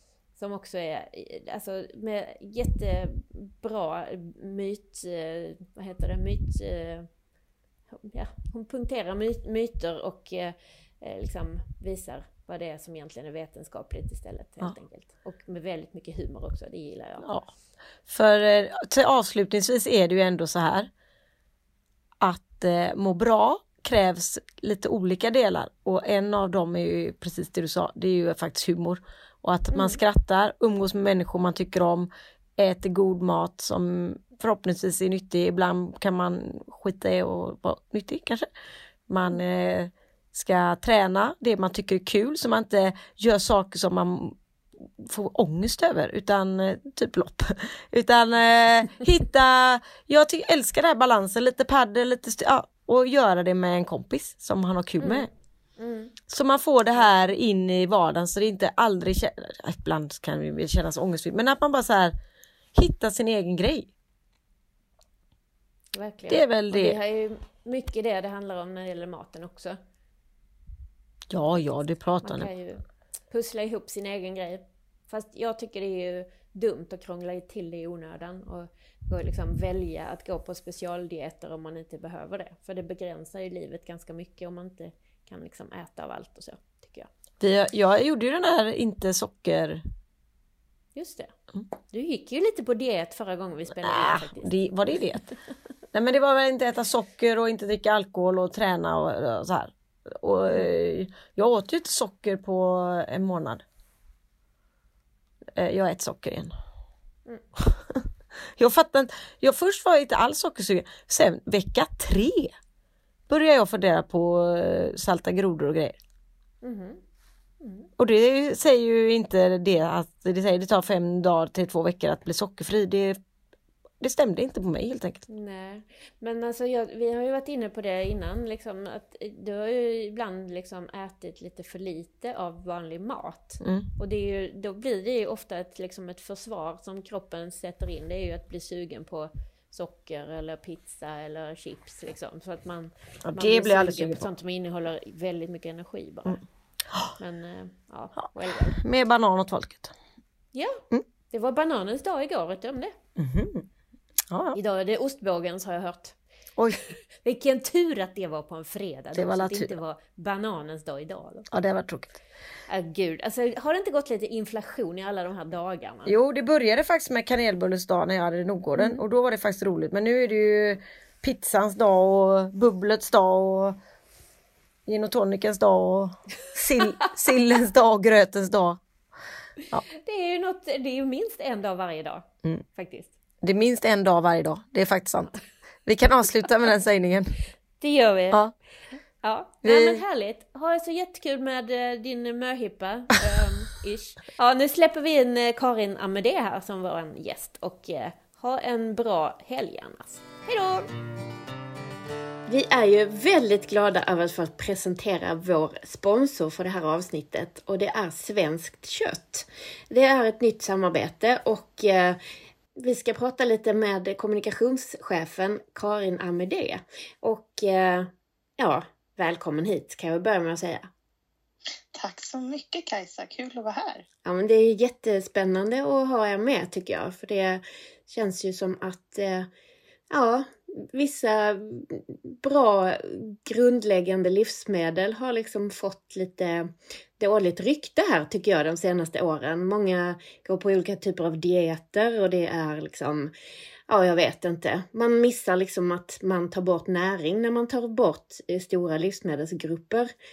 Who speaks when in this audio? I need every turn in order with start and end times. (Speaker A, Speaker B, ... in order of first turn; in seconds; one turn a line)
Speaker A: 0.4-7.1
Speaker A: 8.0-17.3
Speaker B: 17.2-17.5
Speaker B: 18.1-20.9
Speaker B: 22.2-38.5
Speaker A: 29.7-30.0
Speaker B: 39.1-44.4
Speaker B: 45.0-55.3
Speaker A: 55.0-56.2
Speaker B: 56.3-62.1
Speaker B: 62.7-63.9
Speaker A: 65.9-69.8
Speaker B: 66.3-67.0
Speaker B: 71.3-72.5
Speaker A: 72.2-87.1
Speaker B: 87.4-89.8
Speaker A: 91.0-91.3
Speaker A: 91.9-94.5
Speaker B: 93.8-95.3
Speaker B: 95.9-103.6
Speaker B: 105.5-106.5
Speaker B: 107.6-112.5
Speaker B: 113.3-116.0
Speaker A: 116.6-117.0
Speaker A: 117.6-117.9
Speaker B: 118.0-123.2
Speaker B: 124.0-125.2
Speaker A: 125.3-146.4
Speaker B: 133.6-133.9
Speaker B: 143.2-144.3
Speaker A: 147.2-148.8
Speaker B: 148.2-149.9
Speaker A: 150.5-153.0
Speaker B: 153.2-153.7
Speaker B: 154.3-154.6
Speaker A: 154.6-156.2
Speaker B: 156.6-156.8
Speaker A: 157.2-161.5
Speaker B: 159.1-159.8
Speaker B: 161.5-162.2
Speaker A: 162.7-166.2
Speaker B: 166.1-173.8
Speaker B: 174.9-178.8
Speaker A: 179.9-183.1
Speaker B: 183.4-187.3
Speaker A: 187.8-188.4
Speaker A: 189.2-200.9
Speaker B: 189.6-190.0
Speaker A: 202.5-212.2
Speaker A: 212.8-220.9
Speaker C: 221.9-224.1
Speaker A: 224.2-229.5
Speaker A: 230.1-243.3
Speaker A: 243.9-250.1